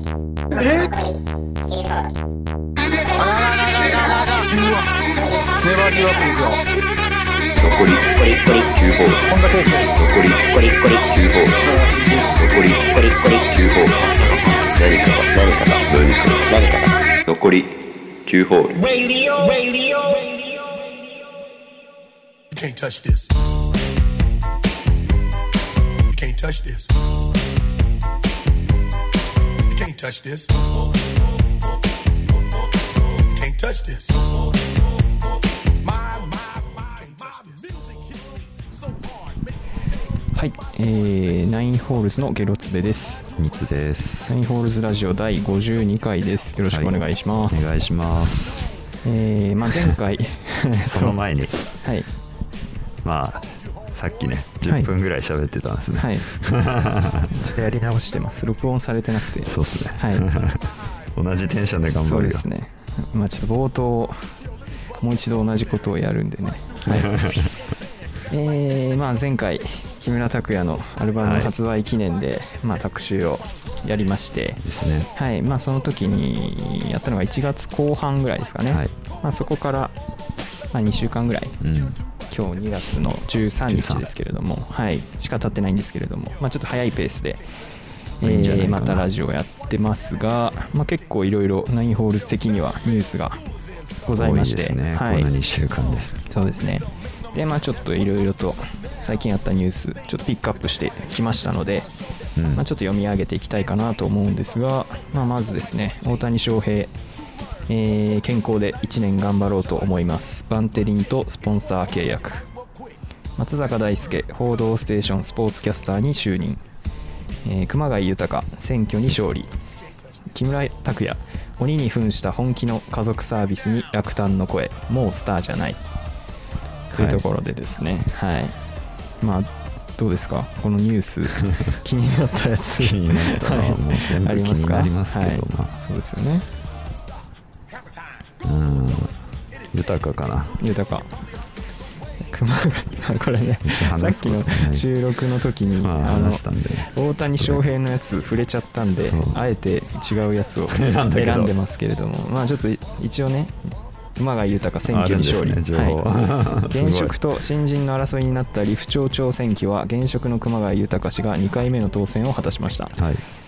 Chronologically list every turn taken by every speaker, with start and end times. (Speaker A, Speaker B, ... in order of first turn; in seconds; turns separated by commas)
Speaker A: 3.1-4.9, Speaker A: 5.6-6.6, Speaker B: 7.6-9.2, Speaker C: 7.6-7.9, Speaker A: 9.3-10.0, Speaker B: 9.9-11.6, Speaker C: 10.0-10.2, Speaker C: 11.1-11.6, Speaker A: 11.6-12.3, Speaker C: 12.2-12.8, Speaker B: 12.3-14.0, Speaker C: 13.5-16.4, Speaker B: 14.8-16.9, Speaker C: 17.3-17.7, Speaker C: 18.2-18.8, Speaker A: 18.9-20.2, Speaker D: 22.6-23.3, Speaker D: 26.1-26.9, Speaker D: 29.7-30.5, Speaker D: 33.4-34.3, Speaker D: 35.9-37.8, Speaker E: 40.3-43.3, Speaker C: 43.3-44.4, Speaker E: 44.3-47.8, Speaker C: 46.7-47.0, Speaker C: 47.5-48.7, Speaker E: 49.0-51.2, Speaker C: 50.9-51.5, Speaker E: 51.7-52.1, Speaker C: 53.0-57.3, Speaker E: 54.6-54.9, Speaker E: 56.0-56.3, Speaker E: 57.3-60.3, Speaker C: 59.4-62.5, Speaker E: 61.9-64.3, Speaker E: 65.0-67.5, Speaker C: 66.8-67.5, Speaker E: 68.3-79.9, Speaker C: 71.2-71.5, Speaker C: 74.6-75.1, Speaker C: 78.7-78.9, Speaker E: 80.7-81.6, Speaker C: 81.6-82.0, Speaker E: 82.3-87.4, Speaker C: 83.6-84.1, Speaker E: 88.2-93.4, Speaker C: 88.2-89.1, Speaker E: 94.0-95.3, Speaker C: 94.1-96.2, Speaker E: 96.3-101.9, Speaker C: 102.4-102.6, Speaker E: 102.5-106.9, Speaker E: 107.7-112.5, Speaker E: 113.4-116.6, Speaker E: 117.4-119.5, Speaker E: 120.3-125.8, Speaker E: 126.9-128.6, Speaker C: 126.9-127.2, Speaker E: 129.2-136.4, Speaker C: 132.8-135.7, Speaker C: 138.4-139.2, Speaker C: 139.7-140.6, Speaker E: 140.6-141.2, Speaker E: 142.3-153.6, Speaker C: 143.6-144.9, Speaker C: 145.8-147.6, Speaker C: 149.0-149.4, Speaker C: 150.7-151.5, Speaker E: 154.2-163.0, Speaker C: 154.9-157.2, Speaker C: 163.0-163.2